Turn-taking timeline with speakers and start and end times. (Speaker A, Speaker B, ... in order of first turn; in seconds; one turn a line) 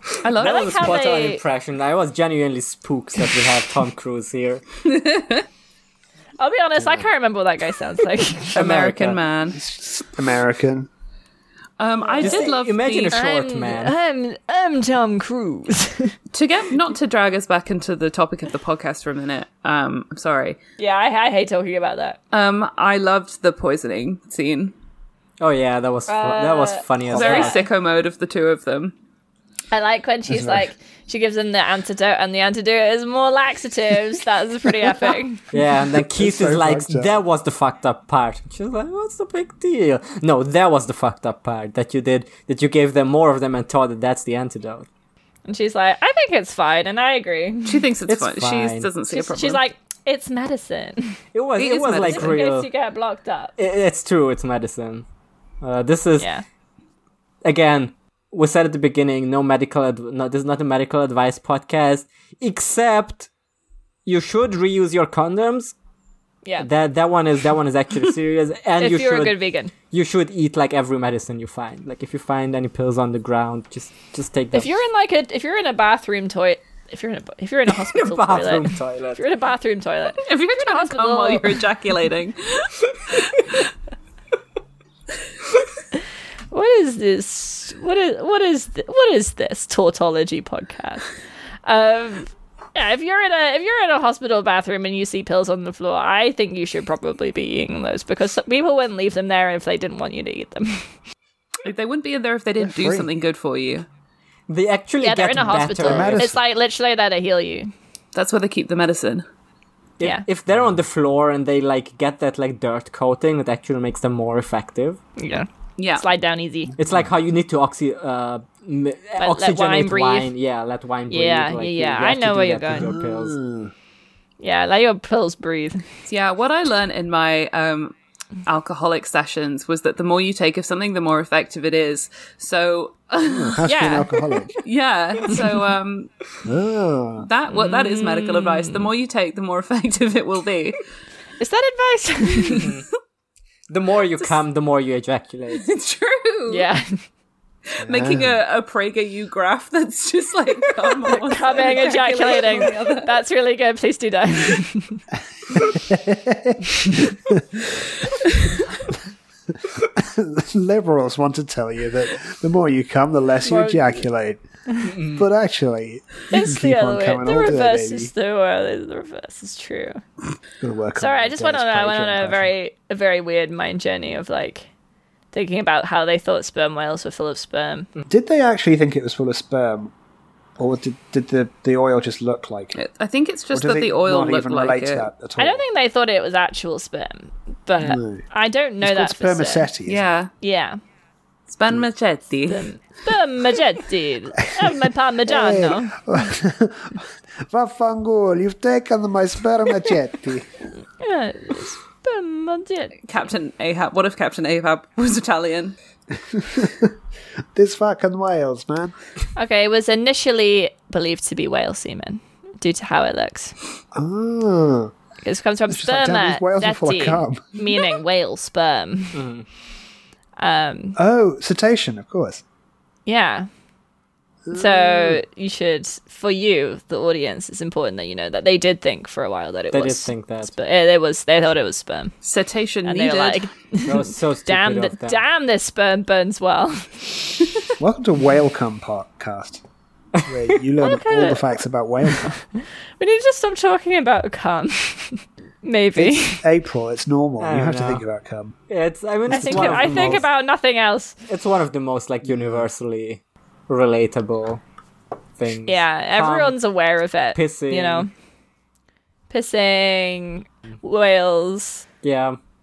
Speaker A: 0.2-0.9
Speaker B: 0.3-4.6
Speaker C: 0.4-1.4
Speaker A: 4.9-5.5
Speaker C: 6.4-8.6
Speaker A: 8.5-9.6
Speaker B: 8.6-9.2
Speaker D: 9.5-10.9
Speaker A: 11.8-13.2
Speaker C: 12.1-12.5
Speaker B: 12.2-13.9
Speaker C: 13.1-16.2
Speaker A: 16.3-20.6
Speaker C: 20.8-22.2
Speaker A: 22.3-24.7
Speaker B: 25.4-27.6
Speaker C: 26.1-27.6
Speaker A: 27.1-28.9
Speaker C: 29.7-35.5
Speaker D: 30.3-30.6
Speaker B: 35.5-44.9
Speaker D: 36.1-37.1
Speaker C: 45.5-47.9
Speaker A: 47.7-49.6
Speaker B: 48.1-48.9
Speaker C: 49.1-51.2
Speaker B: 51.3-52.7
Speaker A: 51.6-52.4
Speaker C: 52.0-53.5
Speaker B: 53.6-55.1
Speaker B: 55.6-56.3
Speaker C: 56.2-56.4
Speaker B: 57.4-63.3
Speaker B: 64.1-65.8
Speaker B: 66.6-69.3
Speaker C: 68.8-69.7
Speaker B: 69.9-74.7
Speaker C: 74.5-81.6
Speaker B: 77.9-79.2
Speaker A: 80.2-83.4
Speaker C: 86.5-91.1
Speaker C: 91.7-100.9
Speaker A: 101.6-103.9
Speaker D: 102.6-103.1
Speaker B: 104.5-106.3
Speaker C: 105.0-107.7
Speaker D: 105.8-106.4
Speaker A: 108.1-109.2
Speaker B: 110.0-115.0
Speaker C: 115.2-116.7
Speaker A: 115.8-116.0
Speaker B: 116.8-123.4
Speaker C: 119.2-120.3
Speaker C: 121.1-122.9
Speaker D: 122.8-123.7
Speaker C: 124.4-125.8
Speaker A: 126.1-133.6
Speaker D: 133.2-134.6
Speaker C: 133.7-134.1
Speaker A: 134.6-136.1
Speaker D: 136.4-137.3
Speaker A: 137.2-140.8
Speaker C: 137.5-138.9
Speaker C: 141.4-142.7
Speaker B: 142.5-142.9
Speaker B: 143.7-145.7
Speaker A: 145.5-146.7
Speaker C: 146.5-146.9
Speaker A: 147.8-153.2
Speaker D: 147.8-148.4
Speaker C: 151.1-155.0
Speaker D: 155.5-157.6
Speaker D: 159.8-164.4
Speaker C: 163.4-164.0
Speaker B: 164.8-165.2
Speaker D: 165.1-168.1
Speaker C: 166.3-170.0
Speaker D: 170.6-172.5
Speaker C: 171.0-174.7
Speaker C: 175.3-177.9
Speaker D: 178.1-179.9
Speaker D: 180.6-182.8
Speaker A: 182.8-185.1
Speaker D: 183.5-185.6
Speaker C: 185.4-189.7
Speaker D: 187.8-188.2
Speaker D: 188.8-190.2
Speaker A: 189.9-190.3
Speaker C: 190.4-190.8
Speaker A: 191.5-192.7
Speaker C: 192.5-195.9
Speaker D: 195.3-200.6
Speaker C: 201.0-203.0
Speaker A: 203.0-205.8
Speaker D: 206.2-206.9
Speaker D: 207.6-208.9
Speaker C: 209.4-213.6
Speaker D: 213.9-214.9
Speaker C: 215.2-219.2
Speaker D: 215.7-217.4
Speaker B: 219.1-219.5
Speaker C: 220.4-221.0
Speaker D: 221.0-222.4
Speaker C: 223.1-223.5
Speaker D: 224.4-225.2
Speaker C: 224.5-232.1
Speaker B: 229.7-230.5
Speaker A: 232.2-233.5
Speaker C: 232.8-237.2
Speaker B: 233.8-235.2
Speaker D: 237.8-239.6
Speaker D: 240.2-242.3
Speaker C: 240.8-241.4
Speaker C: 242.2-246.4
Speaker D: 246.0-248.5
Speaker B: 247.4-248.0
Speaker B: 248.7-250.2
Speaker D: 249.3-250.2
Speaker C: 249.3-251.2
Speaker B: 251.3-254.6
Speaker D: 252.2-252.7
Speaker B: 255.4-256.6
Speaker C: 255.7-258.1
Speaker B: 257.3-258.1
Speaker C: 259.3-261.9
Speaker B: 262.0-262.4